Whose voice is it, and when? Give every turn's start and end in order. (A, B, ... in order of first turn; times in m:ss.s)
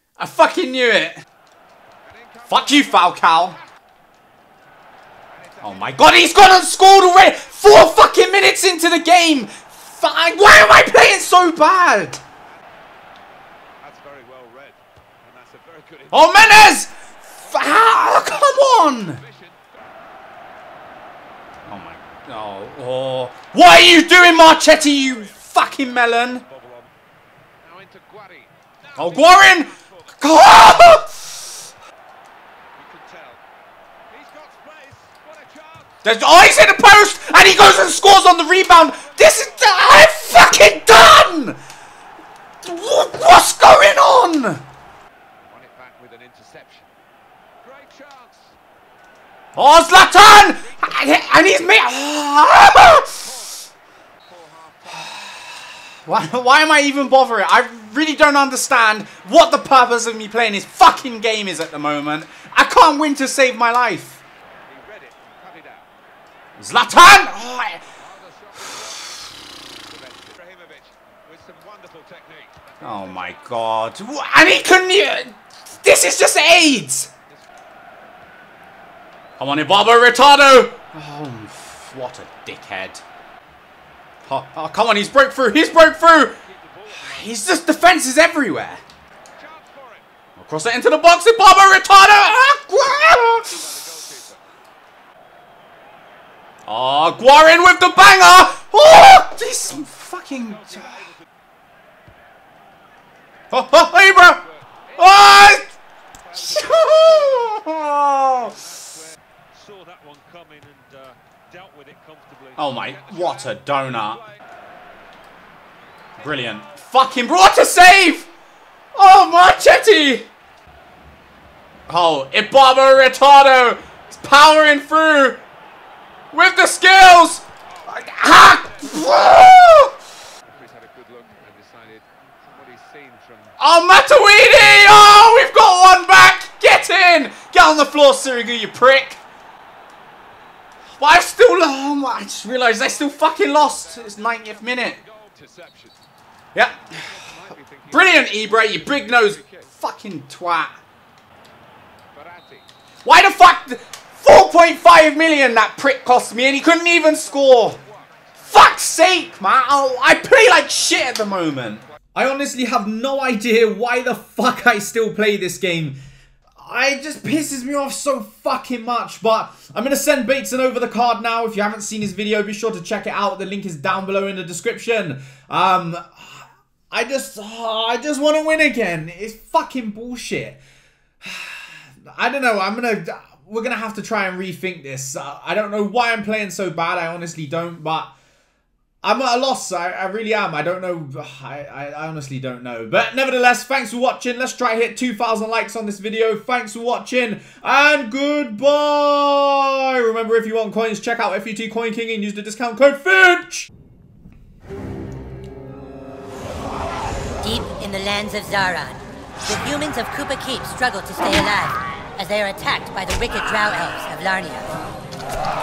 0:00.2-0:01.2 A
0:02.0-0:03.6 B
0:02.5-0:03.6 A
0:05.3-0:06.5 B
0:05.6-0:12.2 A
0:13.8-0:16.8 B
0:16.1-0:19.2 A
0:17.4-0:19.6 B
0:21.7-0:26.4 A
0:24.4-0:25.4 B
0:26.1-0:26.9 B
0:27.6-0:30.6 B
0:29.0-0:31.4 A
0:32.8-0:33.4 B
0:34.1-0:36.0 B
0:36.0-0:41.6 A
0:38.8-0:40.2 B
0:42.6-0:44.6 A
0:45.4-0:46.9 B
0:47.6-0:48.6 B
0:49.6-0:53.3 A
0:50.3-0:51.5 B
0:52.8-0:53.7 B
0:54.3-0:55.4 B
0:54.9-1:04.2 A
1:04.7-1:05.9 B
1:06.6-1:07.8 A
1:08.0-1:09.3 B
1:09.9-1:13.7 B
1:12.8-1:17.1 A
1:19.4-1:23.0 A
1:24.3-1:26.4 A
1:26.4-1:27.7 B
1:26.9-1:28.8 A
1:29.4-1:30.1 B
1:30.4-1:33.6 A
1:33.3-1:34.4 B
1:36.7-1:41.1 A
1:39.6-1:41.3 B
1:43.5-1:44.4 A
1:44.2-1:45.6 B
1:45.0-1:45.7 A
1:46.2-1:54.4 B
1:46.3-1:48.6 A
1:52.6-1:54.2 A
1:56.2-1:56.9 B
1:56.2-1:58.3 A
1:59.0-2:00.3 A
2:01.9-2:05.4 A
2:06.3-2:10.0 A
2:07.7-2:09.3 B
2:10.5-2:13.6 B
2:13.6-2:19.2 A
2:21.0-2:25.0 A
2:22.8-2:26.0 B
2:26.6-2:27.1 A
2:26.9-2:29.7 B
2:27.9-2:30.8 A
2:32.1-2:32.7 B
2:33.0-2:37.8 A
2:37.1-2:38.3 B
2:38.4-2:46.0 A
2:46.6-3:00.6 A
3:01.2-3:08.1 A
3:09.0-3:23.7 A
3:27.4-3:34.7 C